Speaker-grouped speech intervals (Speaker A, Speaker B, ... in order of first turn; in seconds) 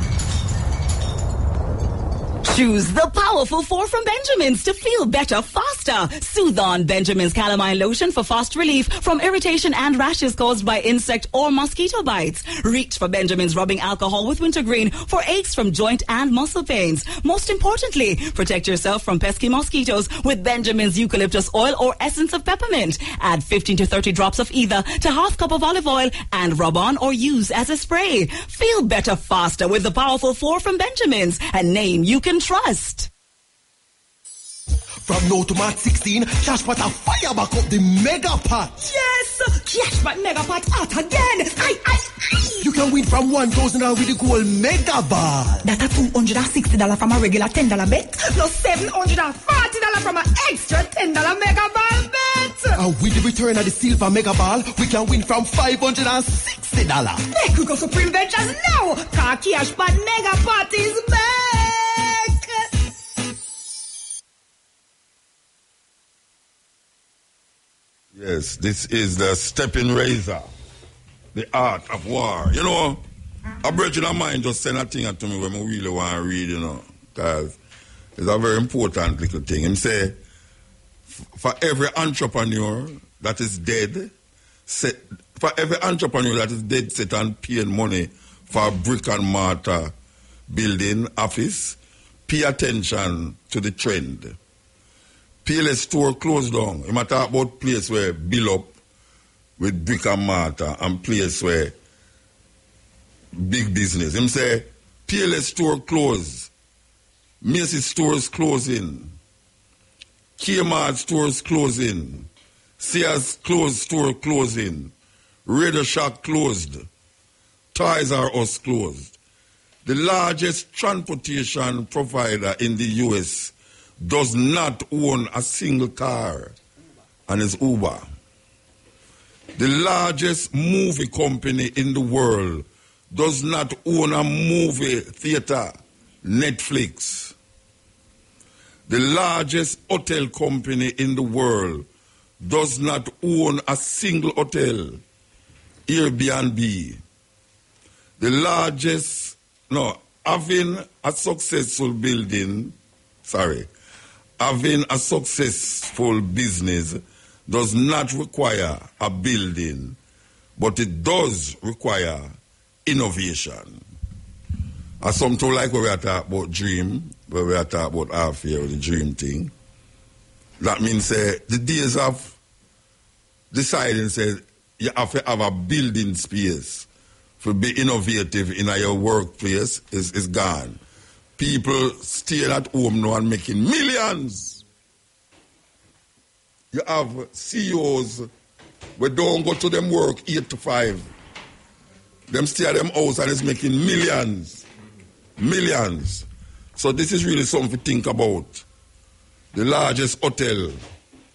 Speaker A: 2.4-33.1
Speaker B: 35.0-38.8, 42.6-45.6, 52.8-57.2
Speaker C: 38.8-42.5, 45.6-52.7, 57.3-62.7
Speaker D: 68.1-70.5, 71.3-73.0, 73.6-77.6, 78.2-80.2, 81.1-84.1, 84.7-89.9, 90.5-94.4, 95.4-98.7, 99.6-101.7, 103.3-106.5, 107.4-109.2, 110.4-114.9, 115.5-116.9, 117.7-119.2, 119.8-126.5, 127.3-128.1, 129.6-137.3, 138.9-141.8, 142.4-145.0, 145.9-147.0, 148.2-153.7, 154.4-160.0, 160.6-163.8, 165.0-169.5, 170.6-172.4, 173.5-176.9, 177.4-180.8, 181.4-184.6, 186.7-188.3, 189.0-191.1, 192.3-194.6, 195.4-198.6, 199.5-200.8